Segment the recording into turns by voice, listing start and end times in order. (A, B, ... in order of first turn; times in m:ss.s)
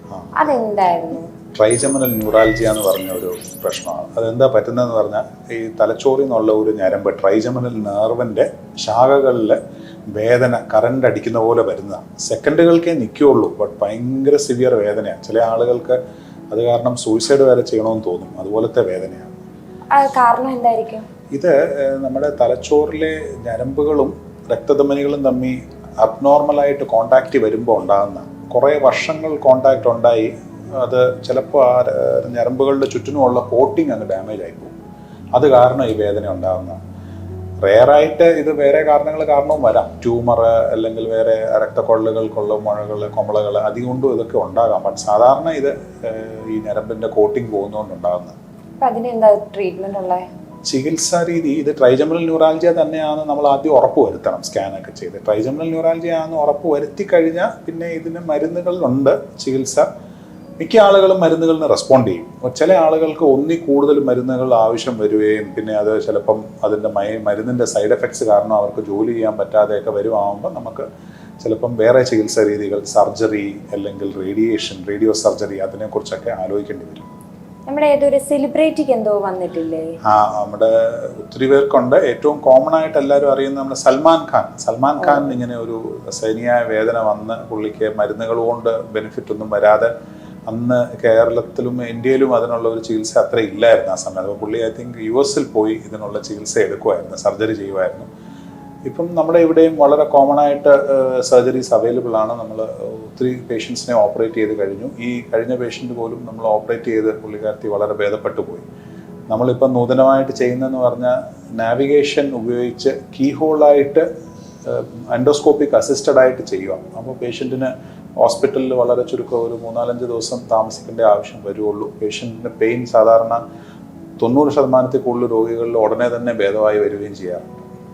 0:00.1-0:00.4 A
0:00.4-0:01.3 B
0:01.6-0:09.6 A
0:10.1-0:16.0 A
0:16.5-0:19.4 A
0:19.9-0:21.1 B
0:21.3-0:34.7 A
0:35.4-0:36.8 A
0:37.6-0:48.4 A
0:48.8-0:50.2 B
0:50.6-0:59.9 A
1:00.6-1:10.9 A
1:11.4-1:17.1 A
1:17.7-1:20.0 B
1:20.0-1:29.9 A
1:30.5-1:38.1 A
1:38.9-1:48.6 A
1:49.3-1:54.0 A
1:54.6-2:03.4 A
2:04.2-2:07.7 A